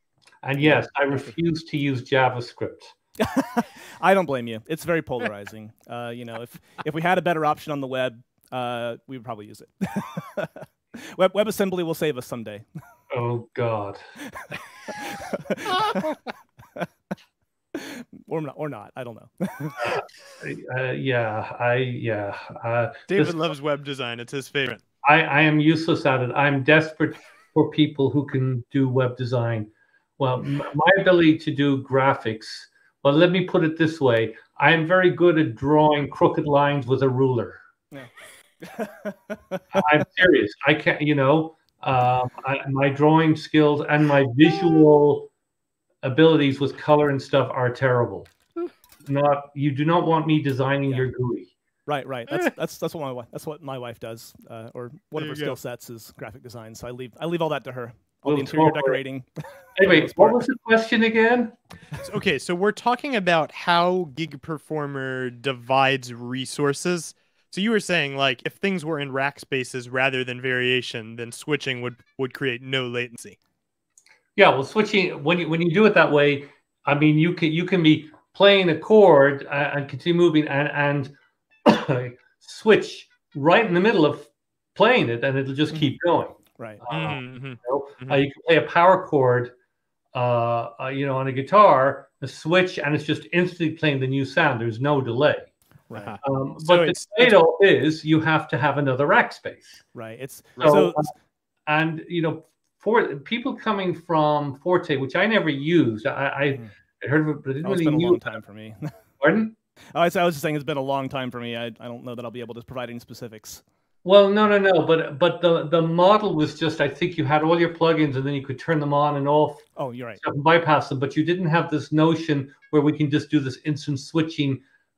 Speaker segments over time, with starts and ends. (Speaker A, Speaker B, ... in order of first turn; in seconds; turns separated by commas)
Speaker A: 0.4-2.9, Speaker B: 0.6-1.3, Speaker B: 3.2-12.7, Speaker A: 13.1-14.0, Speaker B: 14.3-16.1, Speaker C: 15.7-16.1, Speaker B: 17.7-20.0, Speaker A: 19.8-23.5, Speaker C: 23.1-24.8, Speaker A: 25.0-37.6, Speaker B: 38.6-39.8, Speaker A: 39.7-45.3, Speaker A: 46.0-48.3, Speaker A: 49.1-51.5, Speaker B: 51.9-60.5, Speaker C: 55.2-55.6, Speaker A: 58.2-59.0, Speaker A: 59.8-61.6, Speaker C: 62.0-73.4, Speaker A: 74.4-81.1, Speaker A: 81.7-89.5, Speaker C: 86.9-88.2, Speaker A: 90.1-95.5, Speaker B: 95.9-96.2, Speaker C: 95.9-97.3, Speaker A: 96.2-99.8, Speaker B: 100.0-101.0, Speaker A: 100.6-101.1, Speaker A: 101.7-108.4, Speaker B: 107.6-109.0, Speaker A: 109.2-109.5, Speaker B: 109.9-113.6, Speaker A: 114.0-119.7, Speaker B: 119.8-120.2, Speaker A: 120.2-124.6